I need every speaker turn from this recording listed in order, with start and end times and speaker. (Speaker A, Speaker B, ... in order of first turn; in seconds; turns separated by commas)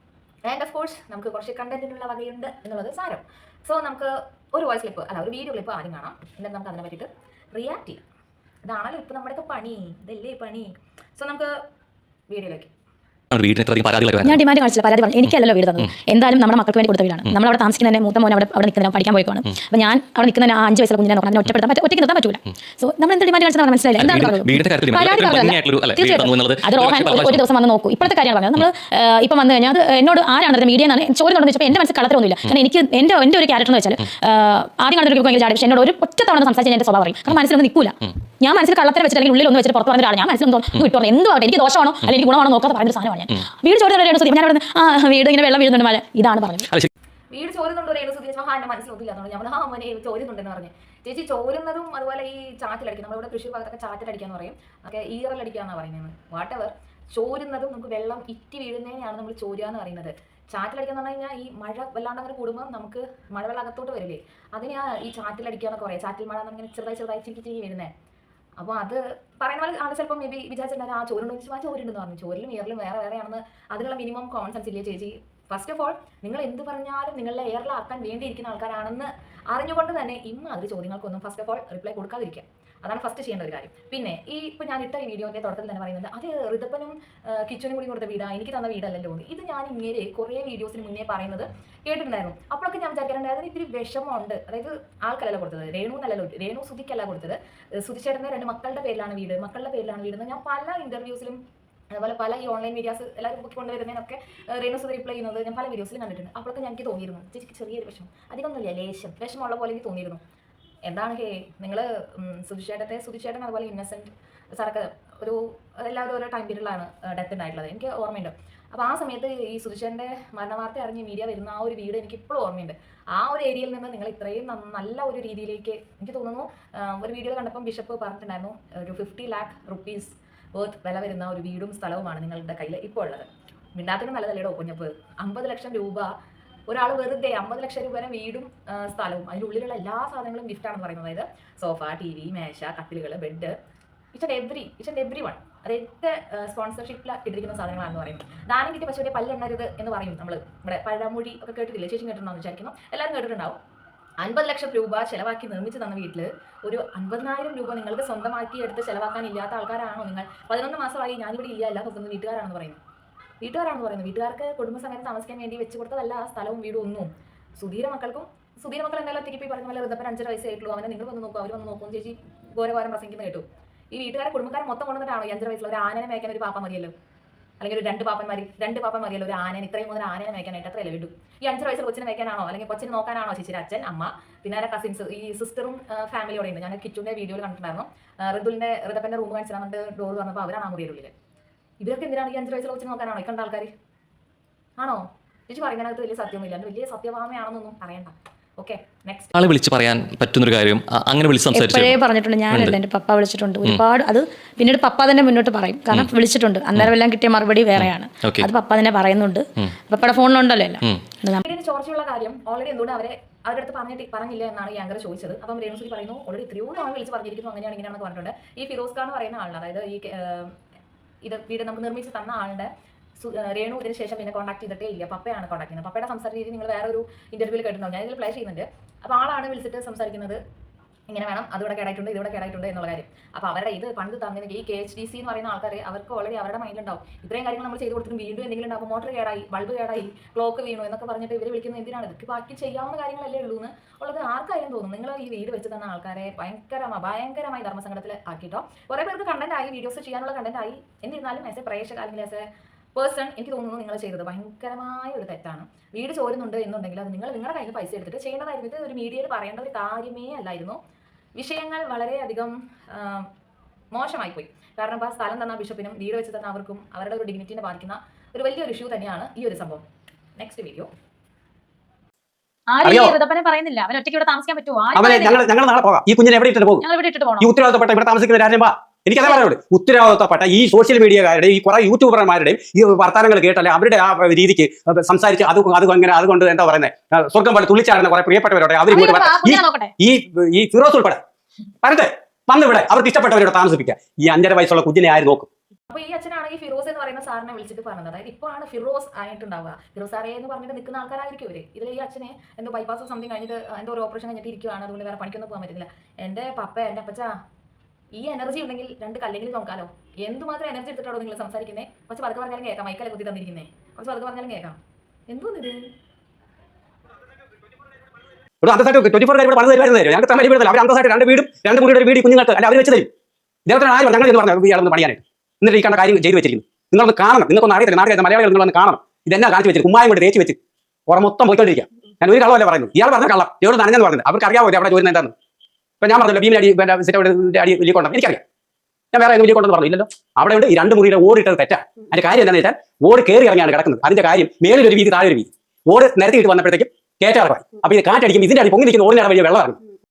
Speaker A: 0.4-8.0, Speaker A: 8.6-11.5, Speaker A: 12.3-12.7, Speaker B: 13.3-14.4, Speaker C: 14.2-46.7, Speaker B: 24.0-27.4, Speaker A: 47.3-67.9, Speaker A: 68.6-101.4, Speaker A: 101.9-110.2, Speaker A: 110.8-136.1, Speaker A: 136.7-143.6, Speaker A: 144.1-153.6, Speaker A: 154.2-162.8, Speaker A: 163.4-176.9, Speaker A: 177.6-191.1, Speaker A: 191.8-193.7, Speaker A: 194.8-199.3, Speaker B: 199.3-202.8, Speaker C: 201.5-211.4, Speaker B: 207.7-208.5, Speaker A: 211.4-220.6, Speaker A: 221.2-230.4, Speaker A: 231.1-260.8, Speaker A: 261.4-263.3, Speaker A: 263.9-269.8, Speaker A: 270.4-270.9, Speaker C: 272.7-275.4, Speaker D: 272.8-273.2, Speaker D: 274.9-276.9, Speaker C: 276.8-277.5, Speaker D: 277.4-291.2, Speaker C: 288.9-289.9, Speaker D: 291.8-295.5, Speaker A: 295.9-307.3, Speaker A: 308.1-314.8, Speaker A: 315.3-315.9, Speaker D: 318.6-323.1, Speaker D: 323.6-335.3, Speaker D: 336.0-338.4, Speaker D: 339.1-349.8